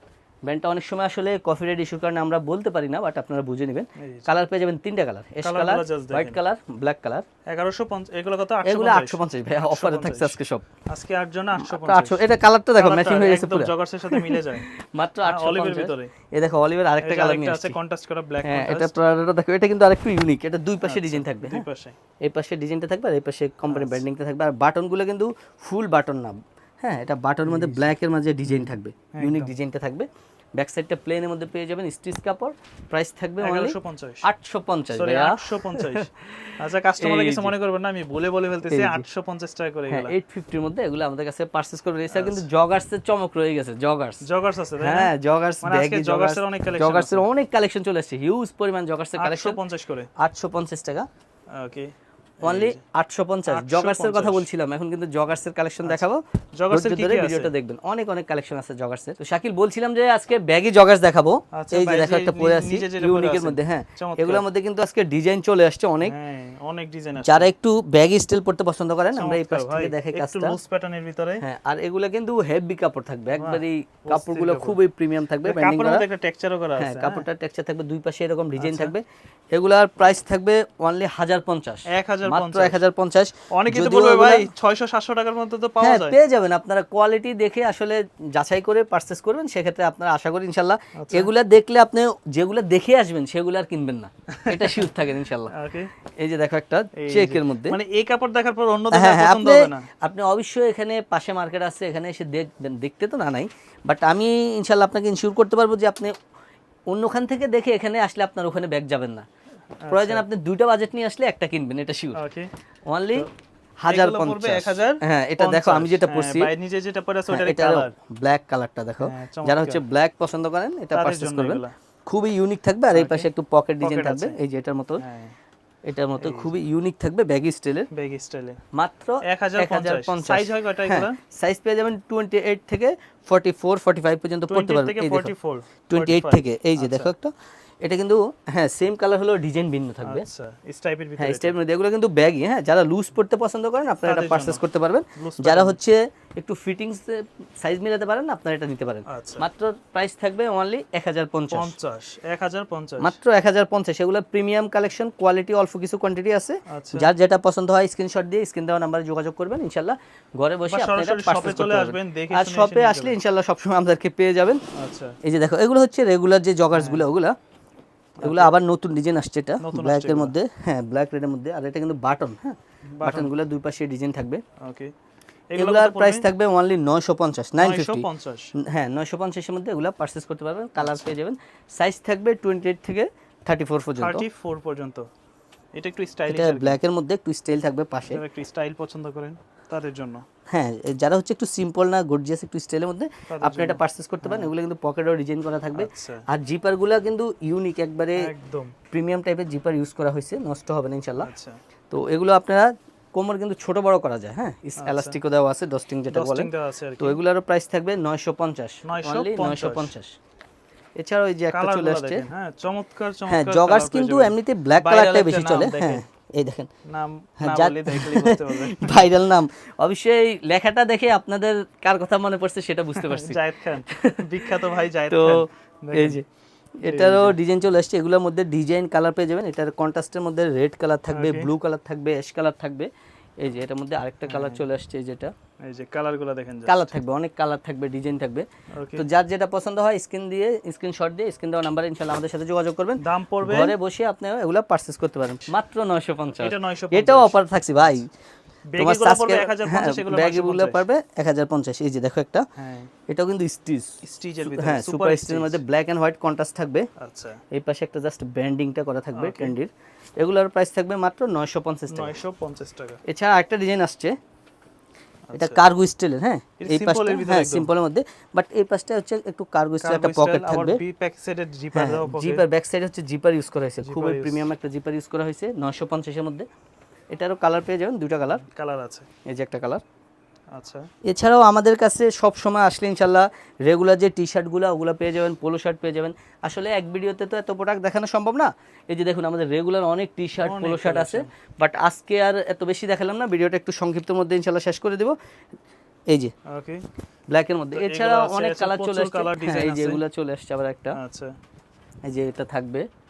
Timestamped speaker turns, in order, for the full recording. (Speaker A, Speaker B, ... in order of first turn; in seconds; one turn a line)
Speaker A: 0.4-7.2
Speaker B: 4.0-4.3
Speaker B: 5.4-6.4
Speaker B: 7.5-10.4
Speaker A: 8.6-10.6
Speaker B: 10.9-12.2
Speaker A: 11.6-17.8
Speaker B: 12.8-14.7
Speaker B: 15.2-16.1
Speaker B: 17.0-18.9
Speaker A: 18.4-21.6
Speaker B: 20.8-21.9
Speaker A: 22.2-37.5
Speaker B: 23.7-24.0
Speaker B: 27.4-27.9
Speaker B: 28.4-29.5
Speaker B: 33.4-34.3
Speaker B: 34.9-40.2
Speaker A: 38.7-39.0
Speaker A: 39.9-44.2
Speaker B: 42.1-42.5
Speaker B: 44.2-47.2
Speaker A: 44.8-49.6
Speaker B: 49.2-50.1
Speaker A: 50.2-51.1
Speaker B: 51.5-52.8
Speaker A: 52.4-66.2
Speaker B: 53.5-54.5
Speaker B: 55.8-57.5
Speaker B: 61.5-64.5
Speaker B: 66.0-67.5
Speaker A: 67.2-70.5
Speaker B: 69.1-71.4
Speaker A: 71.4-76.0
Speaker B: 73.3-74.8
Speaker B: 75.4-77.3
Speaker A: 76.8-84.5
Speaker B: 78.6-78.9
Speaker B: 81.9-82.8
Speaker B: 83.5-86.2
Speaker A: 85.8-95.5
Speaker B: 90.9-91.3
Speaker B: 94.3-95.9
Speaker A: 96.0-97.8
Speaker B: 96.9-99.9
Speaker A: 98.9-106.1
Speaker A: 106.9-109.2
Speaker B: 109.8-110.2
Speaker A: 109.9-112.2
Speaker B: 112.1-112.5
Speaker A: 112.9-113.3
Speaker A: 113.8-116.5
Speaker B: 113.9-117.9
Speaker A: 117.3-125.0
Speaker B: 119.0-119.8
Speaker B: 120.9-121.7
Speaker B: 122.9-123.3
Speaker B: 123.8-124.4
Speaker B: 125.0-125.3
Speaker A: 125.8-127.9
Speaker B: 126.2-126.5
Speaker B: 127.9-128.6
Speaker A: 128.7-135.3
Speaker B: 129.2-131.2
Speaker B: 134.5-137.1
Speaker A: 135.9-140.2
Speaker B: 140.0-141.6
Speaker A: 141.2-151.7
Speaker B: 144.0-144.6
Speaker B: 145.2-145.8
Speaker B: 149.1-149.4
Speaker B: 151.5-153.2
Speaker A: 153.0-164.6
Speaker B: 156.7-157.1
Speaker B: 160.7-163.2
Speaker B: 164.7-165.2
Speaker A: 165.2-167.3
Speaker B: 166.7-167.0
Speaker B: 168.2-168.5
Speaker A: 168.2-174.4
Speaker B: 169.6-170.3
Speaker B: 172.9-173.3
Speaker B: 174.6-174.9
Speaker B: 175.5-176.2
Speaker A: 175.6-178.0
Speaker B: 177.6-178.5
Speaker A: 178.6-184.2
Speaker B: 184.0-185.1
Speaker B: 185.7-186.8
Speaker A: 186.3-188.2
Speaker B: 188.1-190.2
Speaker A: 190.5-198.3
Speaker B: 193.3-194.5
Speaker B: 195.7-196.2
Speaker B: 198.2-198.7
Speaker A: 198.9-201.3
Speaker B: 201.2-201.6
Speaker A: 201.9-210.2
Speaker B: 204.8-205.2
Speaker B: 206.1-207.2
Speaker B: 208.8-209.9
Speaker A: 210.9-212.2
Speaker B: 211.5-216.0
Speaker A: 213.3-216.7
Speaker B: 216.8-219.0
Speaker A: 217.4-224.6
Speaker B: 222.9-226.2
Speaker A: 225.1-226.2
Speaker A: 226.8-235.3
Speaker B: 226.8-227.4
Speaker B: 231.1-231.5
Speaker B: 234.2-234.6
Speaker B: 235.6-237.0
Speaker A: 236.7-248.1
Speaker B: 238.7-239.1
Speaker B: 243.0-243.8
Speaker B: 246.4-248.0
Speaker B: 248.7-250.8
Speaker A: 248.8-252.4
Speaker B: 252.6-252.9
Speaker A: 253.1-256.9
Speaker B: 254.0-255.6
Speaker B: 256.9-257.4
Speaker A: 257.5-262.1
Speaker B: 259.1-259.6
Speaker B: 261.9-263.0
Speaker A: 263.0-264.1
Speaker B: 265.3-265.6
Speaker A: 265.3-270.8
Speaker B: 266.6-267.7
Speaker B: 269.8-272.4
Speaker A: 271.7-276.4
Speaker B: 273.8-274.4
Speaker A: 277.1-278.4
Speaker B: 278.3-279.1
Speaker A: 279.2-279.8
Speaker B: 280.5-280.9
Speaker A: 281.0-295.1
Speaker B: 290.4-291.3
Speaker B: 296.5-296.8
Speaker A: 297.3-301.0
Speaker B: 297.7-300.0
Speaker B: 300.9-301.4
Speaker A: 302.0-302.9